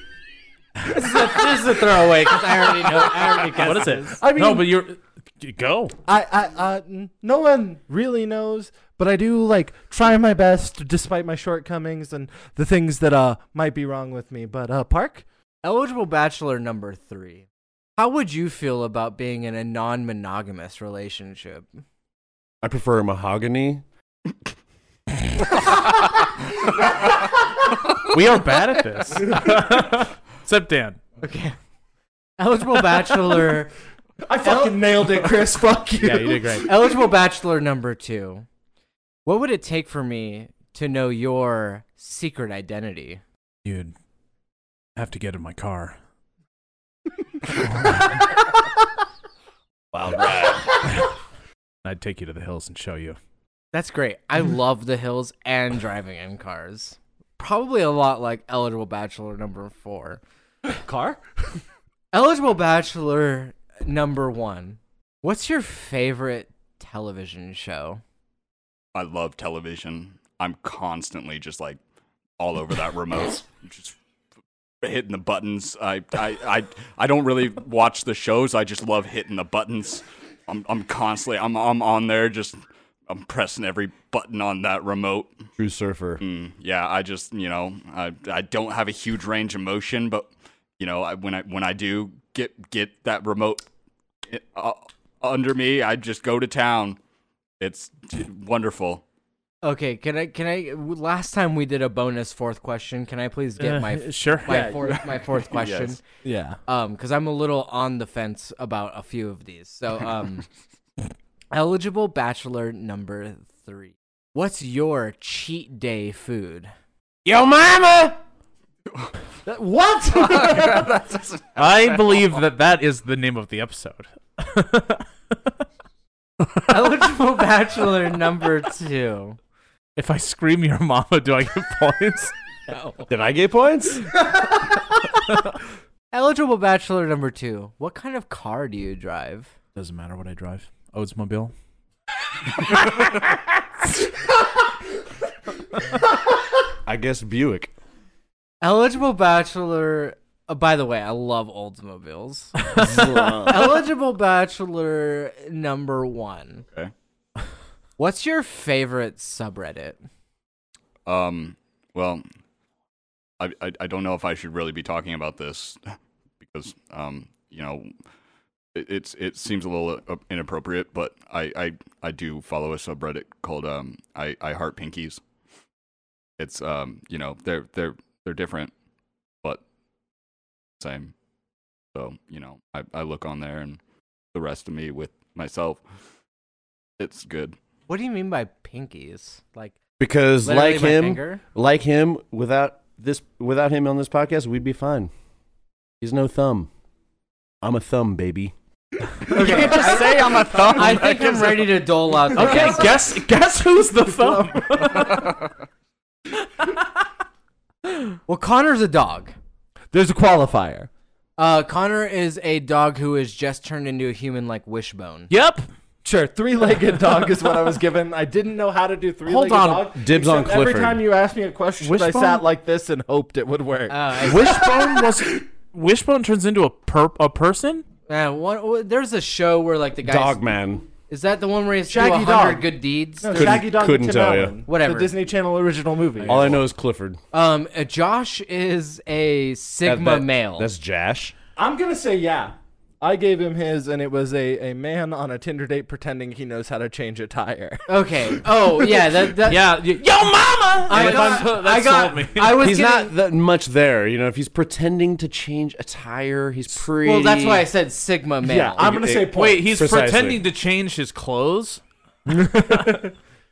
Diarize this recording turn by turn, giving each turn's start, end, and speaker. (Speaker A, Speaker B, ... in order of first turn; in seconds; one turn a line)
Speaker A: 0.8-4.2
Speaker B: 3.4-4.7
Speaker C: 3.5-5.9
Speaker B: 6.1-15.2
Speaker A: 15.6-21.8
Speaker D: 22.6-23.8
Speaker C: 28.0-31.0
Speaker A: 31.2-31.6
Speaker A: 32.4-33.7
Speaker B: 34.3-36.7
Speaker A: 34.4-34.8
Speaker C: 36.0-36.7
Speaker A: 36.6-38.5
Speaker A: 39.3-43.2
Speaker C: 43.6-43.9
Speaker C: 45.0-46.0
Speaker C: 47.6-48.1
Speaker D: 49.9-50.9
Speaker C: 51.9-53.2
Speaker A: 53.7-60.2
Speaker B: 60.7-61.2
Speaker A: 62.1-68.0
Speaker E: 68.9-71.8
Speaker E: 72.4-73.9
Speaker E: 74.8-82.6
Speaker E: 83.1-85.4
Speaker D: 85.6-86.2
Speaker E: 86.2-93.7
Speaker E: 94.3-97.0
Speaker E: 97.6-99.0
Speaker A: 99.6-106.0
Speaker C: 103.6-104.7
Speaker B: 104.5-104.8
Speaker E: 104.9-106.0
Speaker B: 106.2-106.6
Speaker A: 106.7-110.4
Speaker A: 111.5-116.7
Speaker D: 117.2-118.2
Speaker B: 119.5-121.0
Speaker E: 120.1-122.3
Speaker C: 121.6-125.3
Speaker A: 126.7-129.4
Speaker C: 130.0-132.3
Speaker A: 132.7-133.1
Speaker D: 133.1-134.1
Speaker A: 136.1-139.5
Speaker C: 139.7-141.5
Speaker D: 146.8-147.7
Speaker A: 148.6-152.6
Speaker C: 152.7-153.2
Speaker D: 152.7-153.8
Speaker A: 153.4-156.6
Speaker A: 158.0-160.0
Speaker E: 161.1-162.2
Speaker E: 163.4-165.8
Speaker E: 166.4-167.9
Speaker E: 168.7-175.2
Speaker E: 176.4-178.7
Speaker E: 180.8-181.1
Speaker E: 181.9-183.8
Speaker E: 184.3-185.8
Speaker E: 187.0-187.6
Speaker A: 187.9-189.7
Speaker D: 190.0-195.1
Speaker A: 190.4-191.4
Speaker D: 196.0-196.7
Speaker D: 197.6-198.6
Speaker E: 199.2-201.8
Speaker B: 199.3-201.2
Speaker A: 199.3-202.9
Speaker B: 202.3-202.9
Speaker C: 202.3-205.3
Speaker B: 204.1-205.2
Speaker E: 205.0-205.5
Speaker A: 208.3-209.3
Speaker B: 209.9-210.9
Speaker A: 211.4-215.3
Speaker C: 215.3-215.7
Speaker B: 216.0-225.4
Speaker C: 219.2-219.9
Speaker D: 219.9-221.1
Speaker C: 221.8-222.4
Speaker A: 223.9-224.6
Speaker C: 224.2-227.8
Speaker A: 228.1-230.4
Speaker D: 230.0-230.8
Speaker A: 231.1-233.6
Speaker B: 231.9-236.6
Speaker D: 233.3-234.6
Speaker A: 234.7-235.1
Speaker C: 236.2-236.6
Speaker D: 236.3-237.2
Speaker A: 237.3-240.7
Speaker D: 239.8-241.3
Speaker B: 241.6-249.3
Speaker A: 247.9-249.8
Speaker C: 249.4-252.7
Speaker A: 250.8-253.1
Speaker B: 250.9-251.5
Speaker D: 252.6-257.7
Speaker A: 257.0-258.8
Speaker B: 258.4-259.9
Speaker D: 258.8-260.4
Speaker C: 259.3-261.8
Speaker B: 262.3-263.1